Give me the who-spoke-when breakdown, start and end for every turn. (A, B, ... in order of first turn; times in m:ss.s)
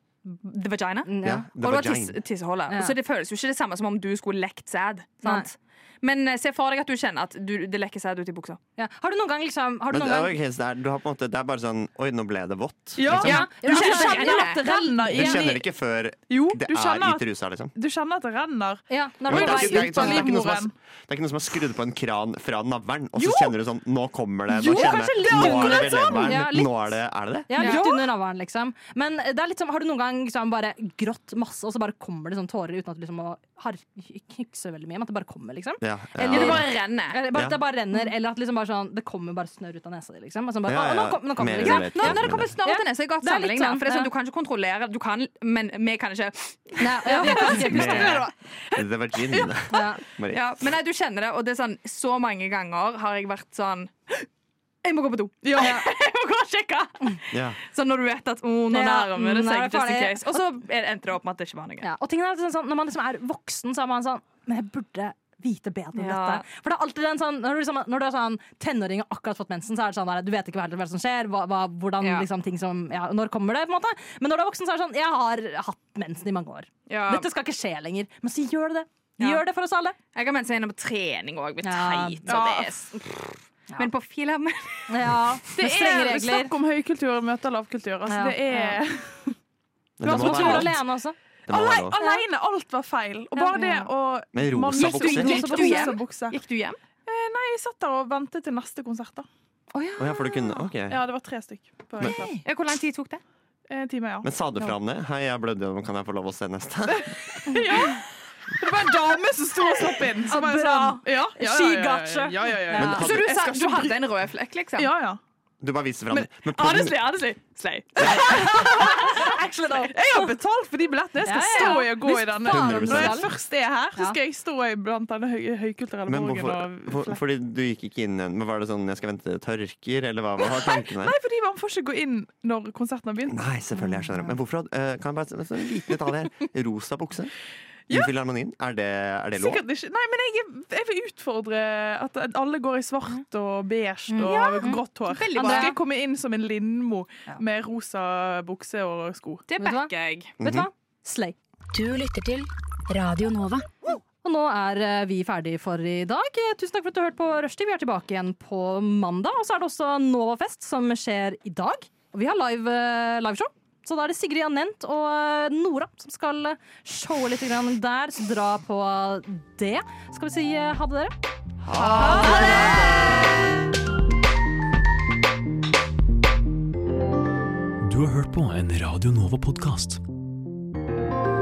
0:00.2-0:01.1 A
0:01.1-0:01.5 B
0:01.2-0:02.2 C
0:01.6-0:08.6 A
0:05.2-0:05.5 B
0:08.8-0:10.4 B
0:09.9-0:13.5 C
0:13.0-0:15.7 D
0:13.0-0:15.4 B
0:13.2-0:14.6 A
0:15.1-0:17.7 C
0:16.3-0:20.7 D
0:18.9-0:20.3 B
0:19.3-0:27.5 C
0:23.2-0:23.6 D
0:24.5-0:26.4 D
0:24.6-0:27.0 B
0:27.5-0:44.1 B
0:27.5-0:27.8 A
0:27.6-0:28.1 D
0:35.8-0:36.7 C
0:36.3-0:37.2 A
0:37.3-0:37.6 C
0:40.7-0:42.6 C
0:41.6-0:48.2 A
0:46.8-0:48.2 B
0:47.0-0:49.6 D
0:47.6-0:50.7 C
0:49.7-0:50.0 B
0:50.3-0:54.3 A
0:54.8-1:01.9 A
0:55.4-0:55.8 D
0:55.6-0:55.9 B
0:57.3-0:57.6 C
0:58.7-1:00.5 B
1:01.8-1:20.0 B
1:06.0-1:06.4 A
1:12.0-1:12.3 A
1:16.9-1:17.3 A
1:20.1-1:25.2 A
1:21.6-1:22.5 B
1:22.3-1:22.7 D
1:24.9-1:26.6 B
1:25.6-1:29.4 D
1:28.1-1:28.8 B
1:30.0-1:30.8 C
1:30.0-1:31.2 B
1:30.0-1:30.7 D
1:31.5-1:32.0 C
1:31.5-1:36.4 D
1:32.0-1:32.2 B
1:33.4-1:33.9 B
1:34.3-1:35.6 C
1:34.7-1:36.8 A
1:35.1-1:36.0 B
1:37.0-1:39.3 D
1:39.7-1:40.7 B
1:40.0-1:41.0 C
1:40.9-1:42.4 D
1:42.0-1:42.4 B
1:42.4-1:43.2 A
1:43.7-1:44.3 D
1:44.2-1:47.5 C
1:46.9-1:54.0 D
1:50.3-1:53.1 B
1:52.7-1:53.5 C
1:52.8-1:54.9 A
1:54.8-1:55.2 D
1:55.6-1:57.1 C
1:56.1-1:59.0 A
1:58.0-1:58.4 C
1:58.0-2:07.2 D
1:58.0-2:00.3 B
2:01.2-2:03.3 B
2:02.4-2:03.3 C
2:06.1-2:11.2 C
2:10.4-2:13.4 D
2:13.3-2:17.3 C
2:13.8-2:14.3 B
2:17.9-2:19.6 C
2:19.4-2:29.4 D
2:24.1-2:24.8 B
2:24.2-2:25.8 A
2:25.3-2:25.8 B
2:29.5-2:30.4 A
2:29.6-2:31.4 B
2:30.4-2:30.7 C
2:31.7-2:33.7 E
2:34.2-2:51.1 B
2:51.6-2:53.4 C
2:51.9-2:53.1 B
2:52.1-2:52.4 D
2:57.8-3:00.0 F